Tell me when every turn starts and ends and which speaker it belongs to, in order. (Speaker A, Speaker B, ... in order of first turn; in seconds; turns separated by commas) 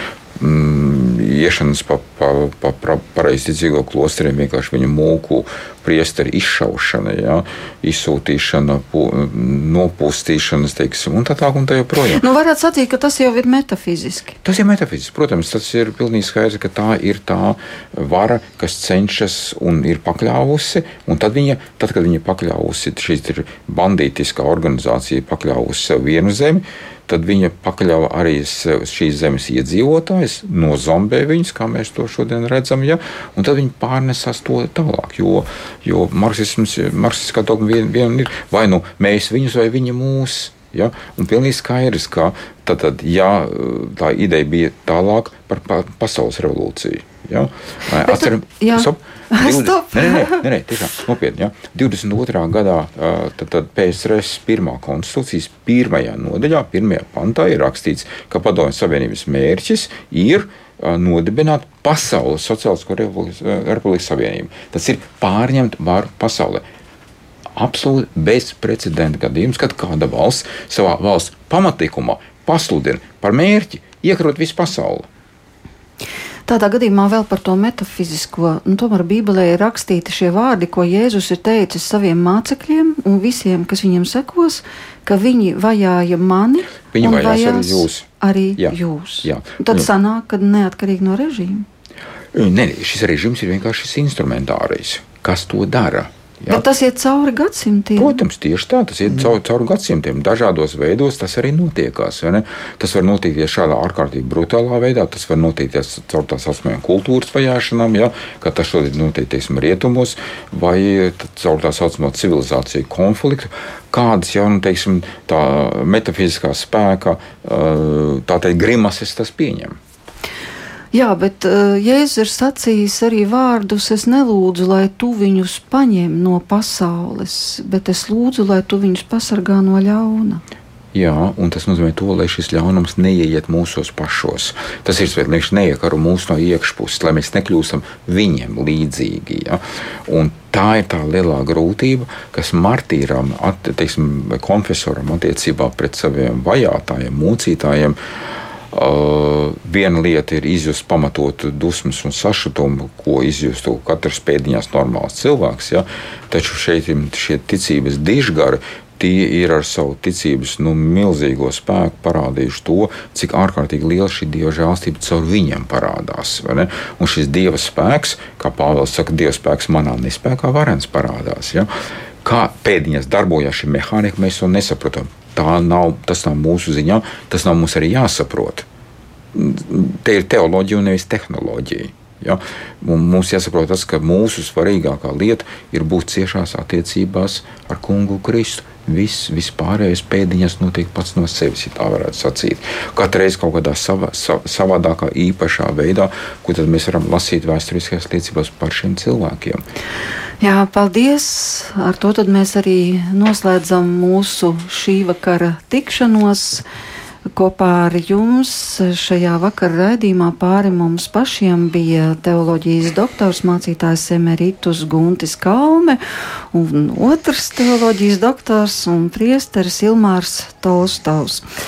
Speaker A: 0.4-12.2, Speaker B: 12.1-14.4, Speaker A: 14.4-66.6, Speaker B: 48.0-50.4, Speaker A: 67.6-75.1, Speaker B: 76.5-91.7, Speaker A: 86.9-88.1, Speaker A: 88.6-89.9, Speaker A: 92.3-96.6, Speaker B: 96.5-98.2, Speaker A: 98.0-119.8, Speaker B: 120.9-130.4, Speaker A: 130.9-148.0, Speaker A: 148.7-171.7, Speaker A: 172.2-178.6, Speaker A: 179.3-199.6, Speaker B: 200.4-206.6, Speaker B: 207.3-216.0, Speaker B: 216.5-221.4